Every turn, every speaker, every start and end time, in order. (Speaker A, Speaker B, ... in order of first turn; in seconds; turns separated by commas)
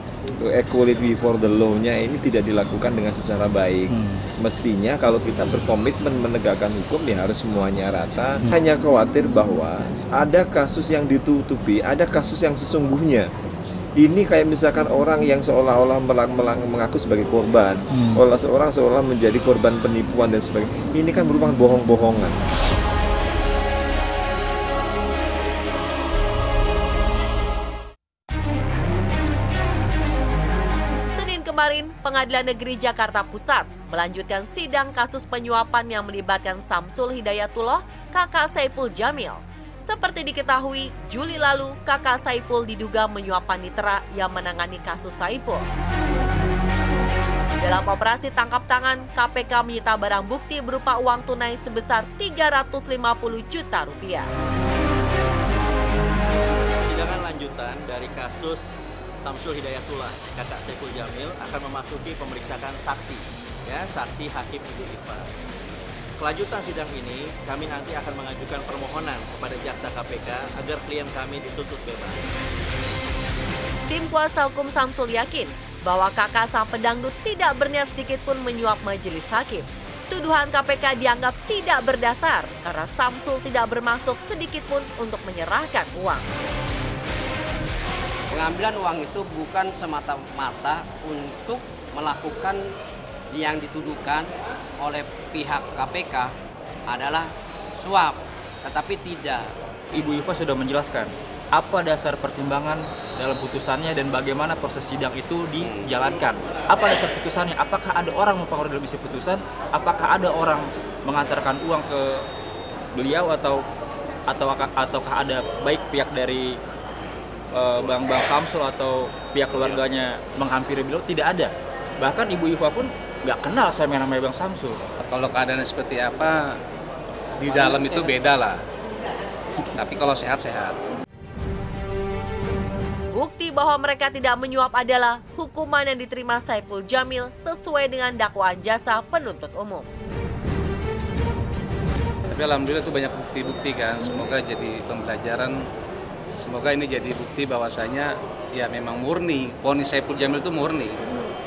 Speaker A: 0.4-13.3, Speaker A: 14.0-22.4, Speaker B: 31.1-45.6, Speaker B: 47.6-54.3, Speaker C: 56.9-58.6, Speaker C: 59.3-63.1, Speaker C: 63.7-65.2, Speaker C: 66.2-72.1, Speaker B: 73.9-86.2, Speaker D: 88.3-92.6, Speaker D: 93.3-96.3, Speaker D: 96.9-99.5, Speaker E: 99.9-112.3, Speaker D: 105.6-105.9, Speaker E: 112.9-113.6, Speaker E: 114.3-116.6, Speaker E: 117.5-124.8, Speaker F: 125.0-126.5, Speaker F: 127.4-128.6, Speaker F: 129.7-130.8, Speaker B: 133.1-139.9, Speaker F: 142.3-145.6, Speaker F: 146.4-151.0